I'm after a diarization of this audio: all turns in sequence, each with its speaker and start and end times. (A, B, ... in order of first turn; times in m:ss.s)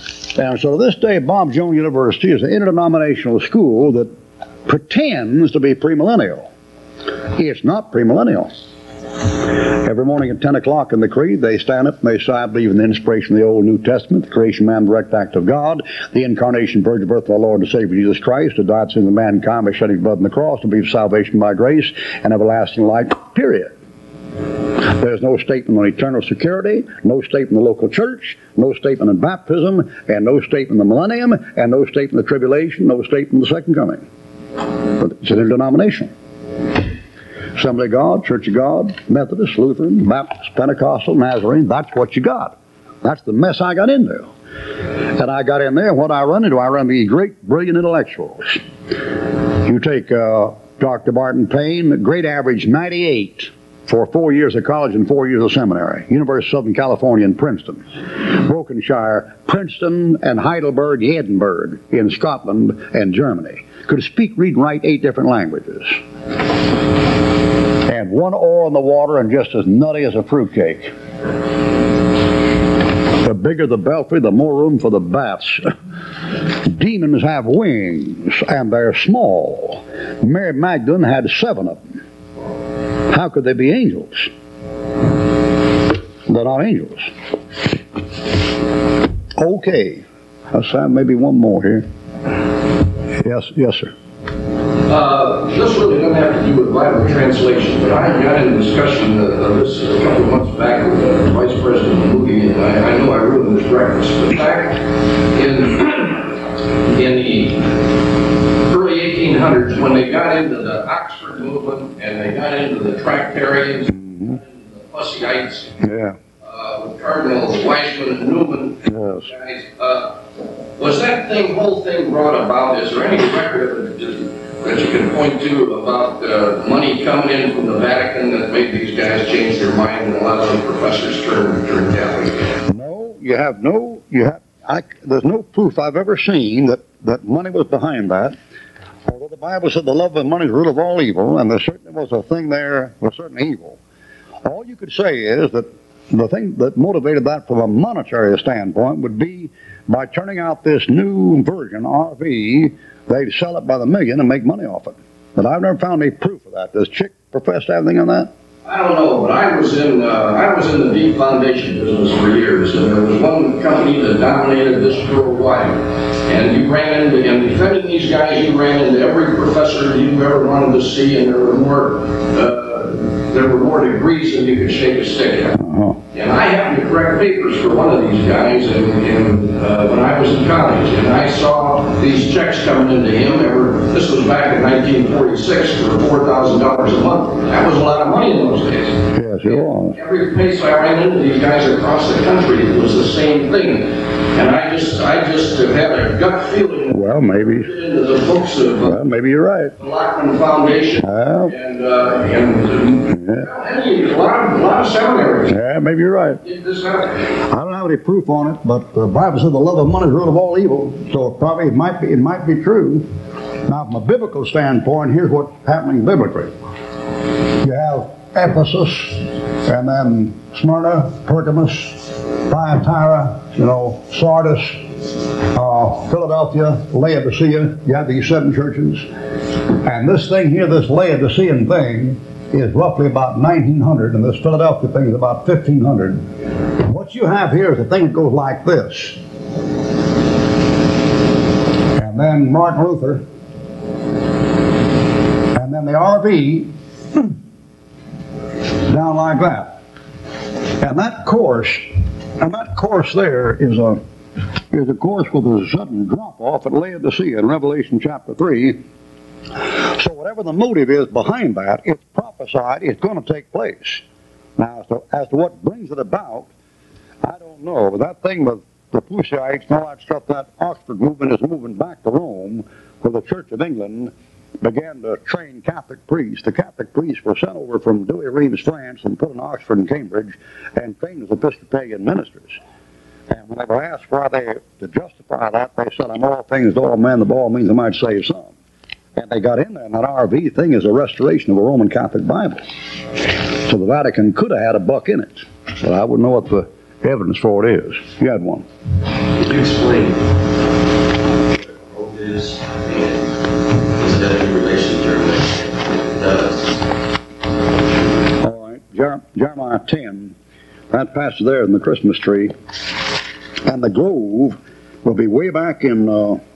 0:00.4-0:04.1 A
0:04.7-0:06.5 A
0:07.4-0:08.5 A
0:09.8-0:23.7 A
0:24.8-0:34.0 A
0:35.0-0:36.1 A
0:37.6-0:44.3 A
0:45.2-0:48.6 A
0:49.6-1:06.0 A
1:07.9-1:10.9 A
1:13.2-1:15.7 A
1:16.6-1:21.8 A
1:23.1-1:24.3 A
1:26.3-1:27.1 A
1:29.4-1:31.9 A
1:33.2-1:33.9 A
1:34.8-1:47.6 B
1:48.7-1:55.8 B
1:55.8-1:56.2 A
1:56.4-2:00.2 B
1:58.9-1:59.3 A
2:00.8-2:12.3 B
2:12.7-2:18.4 A
2:19.1-2:23.8 A
2:24.4-2:38.3 A
2:38.6-2:55.6 B
2:55.6-2:56.0 A
2:56.1-3:19.0 B
3:09.2-3:10.0 A
3:16.9-3:17.7 A
3:18.8-3:19.7 A
3:19.8-3:25.6 B
3:21.0-3:21.5 A
3:23.1-3:23.4 A
3:25.5-3:26.4 A
3:26.4-3:27.2 B
3:27.5-3:33.1 A
3:33.7-3:36.5 A
3:37.6-3:44.9 A
3:45.5-3:49.1 A
3:49.8-3:59.2 A
4:02.0-4:03.2 A
4:05.6-4:07.3 A
4:08.9-4:09.8 A
4:10.8-4:11.9 A
4:12.4-4:14.0 A
4:14.7-4:18.8 A
4:19.8-4:24.0 A
4:24.6-4:26.5 A
4:27.2-4:42.6 A
4:43.3-4:48.5 A
4:49.2-4:52.6 A
4:53.6-4:58.6 A
4:59.4-5:00.3 C
5:01.5-5:03.3 C
5:03.9-5:06.8 C
5:08.4-5:10.4 A
5:10.9-5:12.5 A
5:13.6-5:16.4 A